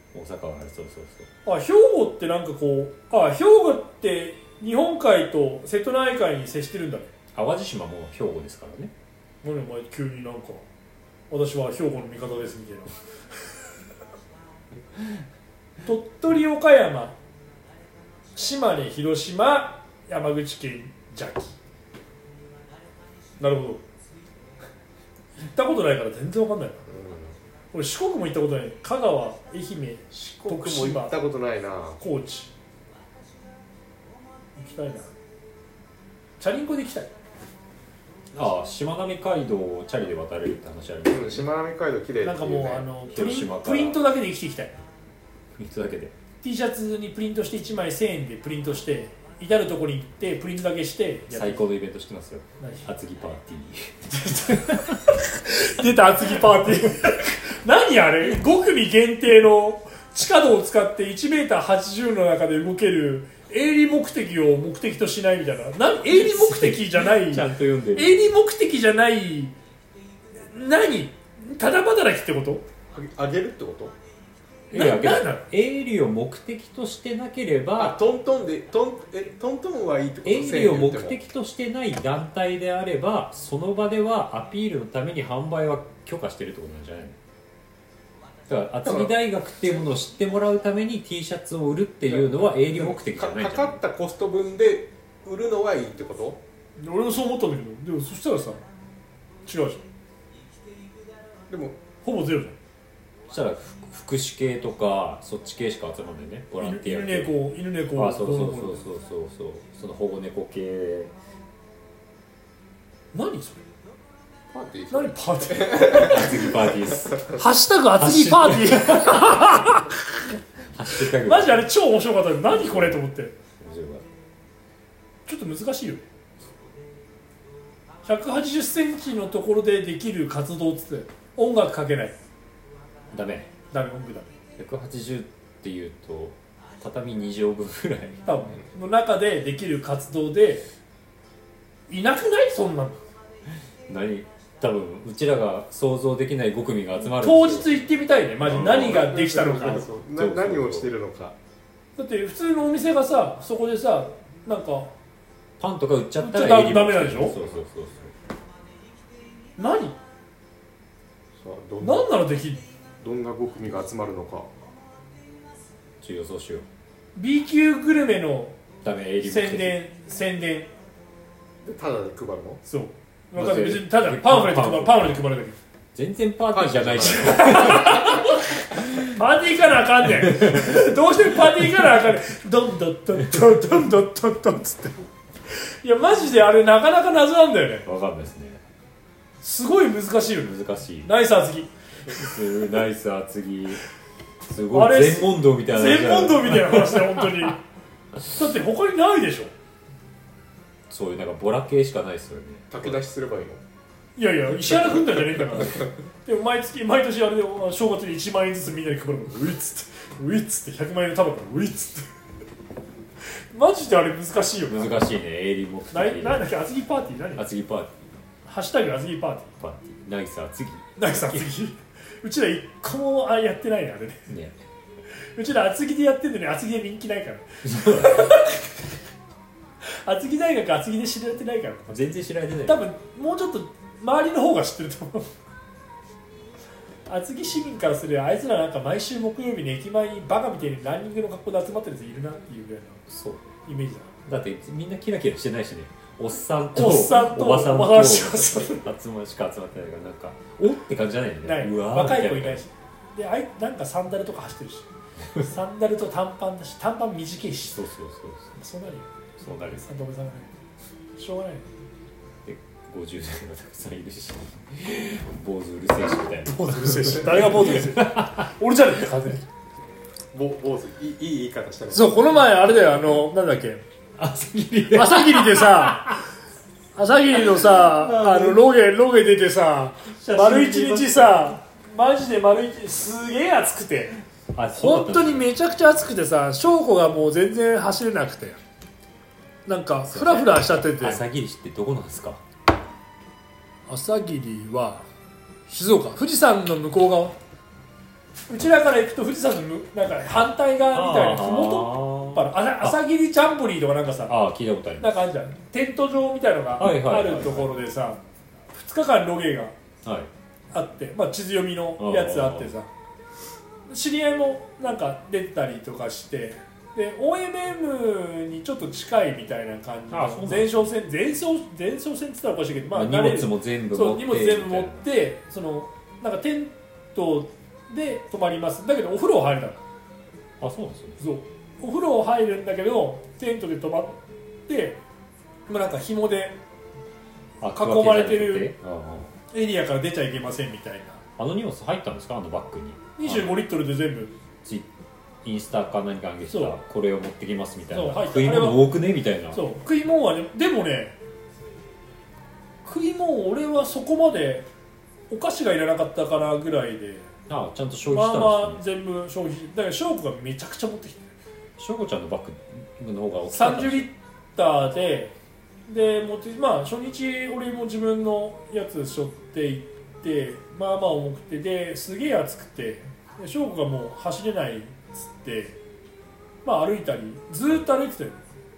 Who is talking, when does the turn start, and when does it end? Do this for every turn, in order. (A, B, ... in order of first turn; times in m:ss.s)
0:00.1-0:01.3 A
0:01.4-0:07.1 B
0:07.3-0:08.9 A
0:09.4-0:10.6 B
0:11.3-0:12.9 B
0:15.8-0:17.2 B
0:18.3-0:21.5 B
0:23.4-0:23.8 B
0:25.4-0:26.8 B
0:26.9-0:27.4 C
0:27.7-0:31.1 B
0:30.1-0:32.0 C
0:32.0-0:32.5 B
0:34.6-0:35.1 B
0:36.4-0:37.1 B
0:38.3-0:41.5 A
0:41.1-0:42.9 C
0:42.2-0:44.8 B
0:43.1-0:44.0 A
0:45.6-0:46.1 A
0:46.4-0:51.6 B
0:51.3-0:55.0 A
0:52.6-0:52.9 B
0:54.2-1:09.6 B
1:06.1-1:08.2 A
1:10.5-1:12.6 B
1:12.9-1:13.9 C
1:14.7-1:18.0 A
1:14.7-1:15.4 B
1:17.8-1:21.2 C
1:20.2-1:27.2 A
1:28.5-1:33.8 A
1:28.8-1:29.1 C
1:32.1-1:36.4 C
1:36.8-1:38.6 B
1:39.4-1:39.8 B
1:41.5-1:41.8 C
1:42.0-1:42.6 B
1:43.3-1:47.4 A
1:46.6-1:48.8 B
1:47.9-1:51.1 A
1:53.1-1:53.6 B
1:54.5-1:57.4 C
1:54.9-1:56.2 B
1:55.9-1:57.2 A
1:57.3-2:00.3 B
1:57.9-1:59.8 A
2:00.7-2:01.6 A
2:01.0-2:03.3 B
2:02.4-2:03.0 A
2:03.6-2:04.0 A
2:05.2-2:06.0 B
2:08.0-2:12.1 B
2:13.1-2:13.5 A
2:13.7-2:14.4 B
2:14.6-2:18.2 A
2:18.2-2:20.6 B
2:21.9-2:23.0 B
2:23.9-2:27.8 A
2:27.0-2:29.9 B
2:28.4-2:29.1 A
2:28.5-2:31.3 C
2:30.1-2:30.9 A
2:32.0-2:34.9 B
2:35.6-2:38.1 A
2:36.2-2:37.4 B
2:39.6-2:40.0 B
2:41.4-2:42.1 C
2:41.8-2:42.6 B
2:43.0-2:44.5 C
2:46.0-2:46.6 A
2:47.1-2:48.6 B
2:48.8-2:49.8 A
2:49.2-2:50.7 B
2:51.6-2:52.6 C
2:52.6-2:55.6 B
2:53.3-2:55.1 A
2:55.9-2:58.2 A
2:56.5-2:57.9 C
2:57.1-3:05.0 B
3:00.2-3:00.8 A
3:05.5-3:07.9 B
3:07.8-3:08.6 A
3:09.4-3:11.7 B
3:10.4-3:11.1 A
3:12.1-3:13.8 A
3:14.5-3:17.5 A
3:14.7-3:17.6 B
3:18.3-3:19.5 B
3:20.9-3:23.0 A
3:22.7-3:23.6 C
3:24.2-3:32.1 B
3:33.5-3:35.0 B
3:34.7-3:36.5 A
3:35.9-3:37.4 B
3:37.4-3:38.2 A
3:38.4-3:39.5 B
3:39.6-3:41.5 A
3:41.0-3:44.3 B
3:44.3-3:44.6 A
3:45.4-3:48.8 B
3:47.6-3:48.4 A
3:49.8-3:52.0 B
3:51.9-3:52.8 A
3:52.6-3:55.3 B
3:57.1-4:03.0 B
4:03.1-4:03.5 A
4:03.6-4:04.1 B
4:04.2-4:12.6 A
4:06.7-4:08.9 B
4:11.4-4:17.8 B
4:17.7-4:18.5 A
4:18.6-4:20.5 B
4:19.4-4:19.9 A
4:21.2-4:21.7 B
4:22.4-4:28.5 A
4:26.4-4:29.5 B
4:30.3-4:32.1 C
4:31.9-4:33.8 B
4:34.2-4:36.2 A
4:34.9-4:36.2 B
4:36.9-4:44.2 B
4:37.3-4:38.6 A
4:40.1-4:41.5 A
4:44.5-4:45.5 A
4:44.7-4:48.6 B
4:49.6-4:51.2 B
4:50.0-4:52.4 A
4:53.9-4:55.1 B
4:55.7-4:57.4 B
4:58.5-5:04.4 B
5:00.9-5:03.0 A
5:04.3-5:05.1 A
5:05.0-5:08.2 B
5:06.8-5:07.7 A
5:08.7-5:09.7 B
5:10.0-5:10.3 A
5:10.7-5:12.9 B
5:12.0-5:12.7 A
5:13.9-5:29.8 B
5:20.1-5:20.9 A
5:22.9-5:25.0 A
5:30.6-5:31.2 A
5:31.2-5:35.0 B
5:35.7-5:36.6 B
5:37.6-5:39.3 A
5:37.7-5:38.7 B
5:39.5-5:41.2 B
5:41.4-5:43.6 A
5:43.2-5:44.3 B
5:44.6-5:44.9 A
5:45.4-5:49.6 A
5:46.5-5:46.8 B
5:47.9-5:48.9 B
5:49.5-5:51.2 B
5:52.8-5:54.7 B
5:55.3-5:57.3 B
5:57.5-5:58.8 A
5:58.1-6:01.3 B
6:01.8-6:04.1 A
6:03.5-6:05.3 B
6:05.9-6:15.8 B
6:16.6-6:18.4 B